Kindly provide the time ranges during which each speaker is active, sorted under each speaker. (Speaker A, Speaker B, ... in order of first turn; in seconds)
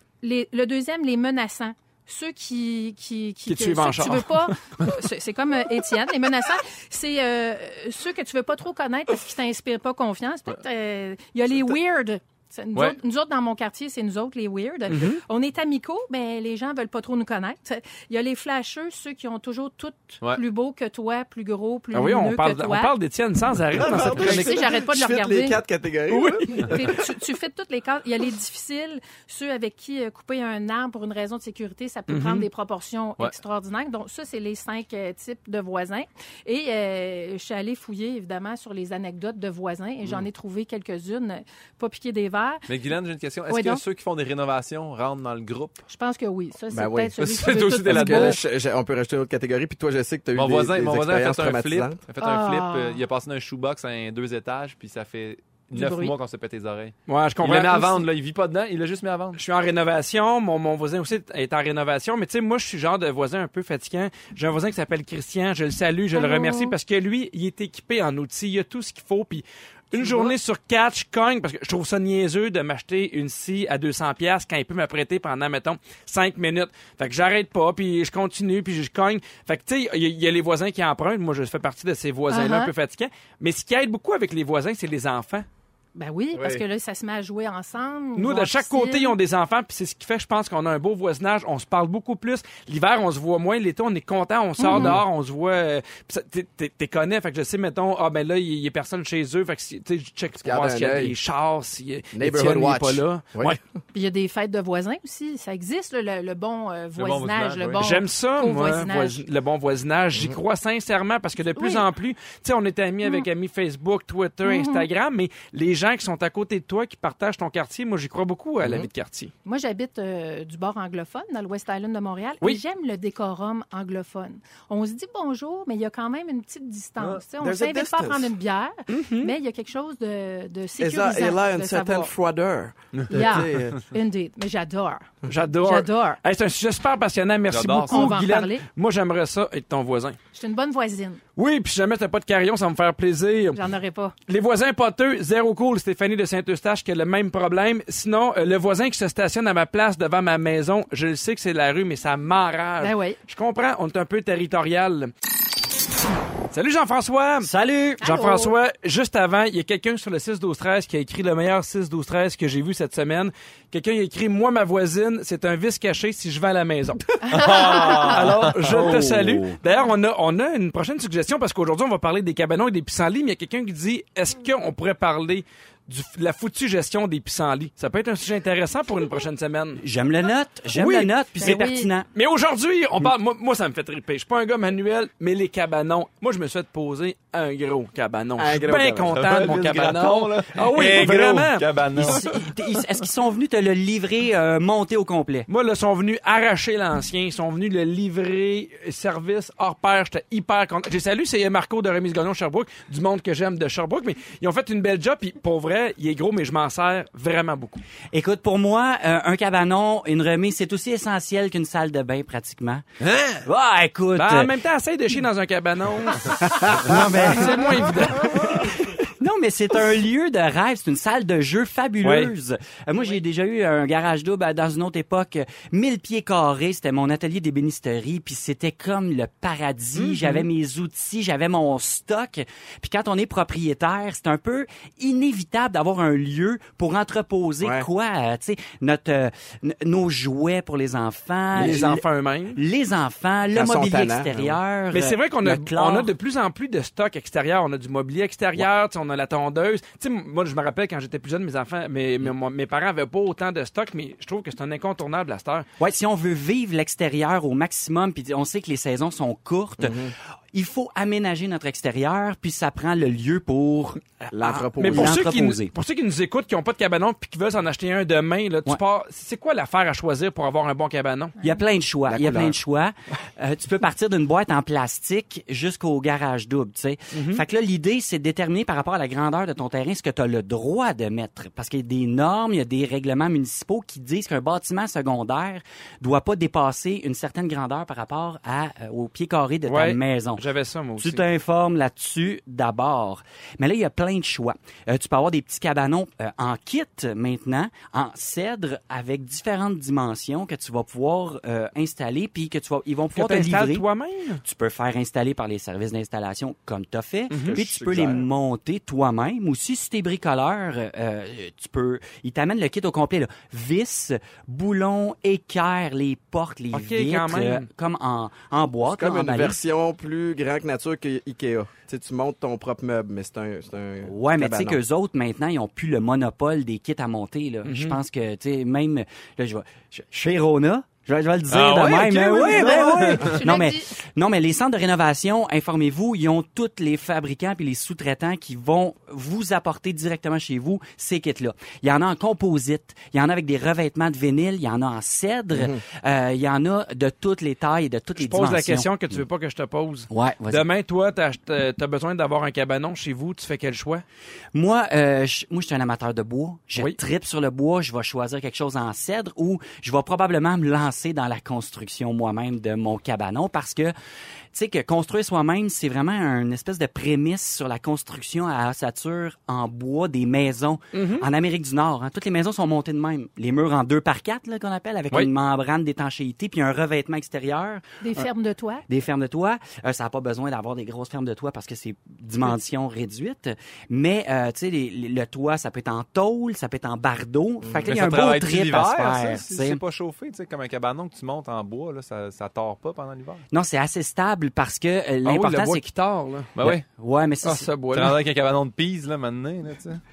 Speaker A: 0.2-22.9, 24.2-25.6, 26.5-42.7, 43.5-43.8, 45.9-48.4, 52.2-53.0, 55.7-56.1, 66.1-66.8, 70.0-70.3, 82.3-82.7, 86.0-89.2, 94.6-95.0, 103.9-109.2, 111.6-111.8, 114.5-114.9, 119.5-132.1, 133.1-135.1, 135.6-136.2, 137.8-138.6, 140.3-141.2, 143.5-144.2, 152.8-153.2, 158.0-158.6, 167.3-168.2, 181.4-181.9, 332.3-333.9, 378.0-378.9
Speaker B: 3.5-4.5, 14.9-15.2, 21.9-24.6, 26.1-26.7, 32.1-32.5, 57.1-58.1, 59.4-85.5, 88.2-103.6, 107.8-119.3, 128.9-129.3, 135.3-140.2, 141.4-143.6, 144.3-155.1, 156.5-157.5, 158.0-179.8, 180.7-192.1, 195.5-207.8, 214.2-218.8, 222.0-222.3, 230.0-230.5, 241.6-242.6, 244.9-255.7, 264.8-271.4, 277.1-277.4, 289.7-291.2, 303.1-304.4, 307.3-307.6, 316.7-317.7, 327.6-328.0, 348.2-354.0, 370.9-371.3, 395.2-396.5, 397.4-398.2
Speaker C: 23.8-26.9, 46.7-47.3, 47.9-52.0, 86.3-86.6, 94.7-95.0, 100.4-101.1, 102.1-103.6, 118.6-118.9, 127.4-128.3, 130.8-133.8, 188.4-189.3, 237.6-237.9, 243.5-244.6, 259.8-260.1, 264.3-265.2, 272.1-272.6, 307.4-308.2, 318.9-324.8, 345.6-345.8, 387.6-387.9
Speaker D: 42.7-45.8, 47.2-48.4, 50.3-59.4, 107.0-107.9, 132.9-133.4, 137.5-138.2, 167.3-169.1, 189.1-192.5, 213.0-213.4, 331.5-333.4, 387.8-393.4, 396.6-396.9, 397.9-400.0
Speaker E: 157.4-158.0, 168.7-169.6, 179.8-182.1, 192.0-195.5, 208.1-212.8, 213.4-214.5, 216.6-217.9, 218.6-246.1, 255.8-265.7, 271.4-290.4, 291.0-303.9, 304.4-319.6, 324.1-349.2, 350.1-350.6, 354.5-363.9, 364.5-378.2, 378.9-389.8, 393.5-395.9, 396.6-397.7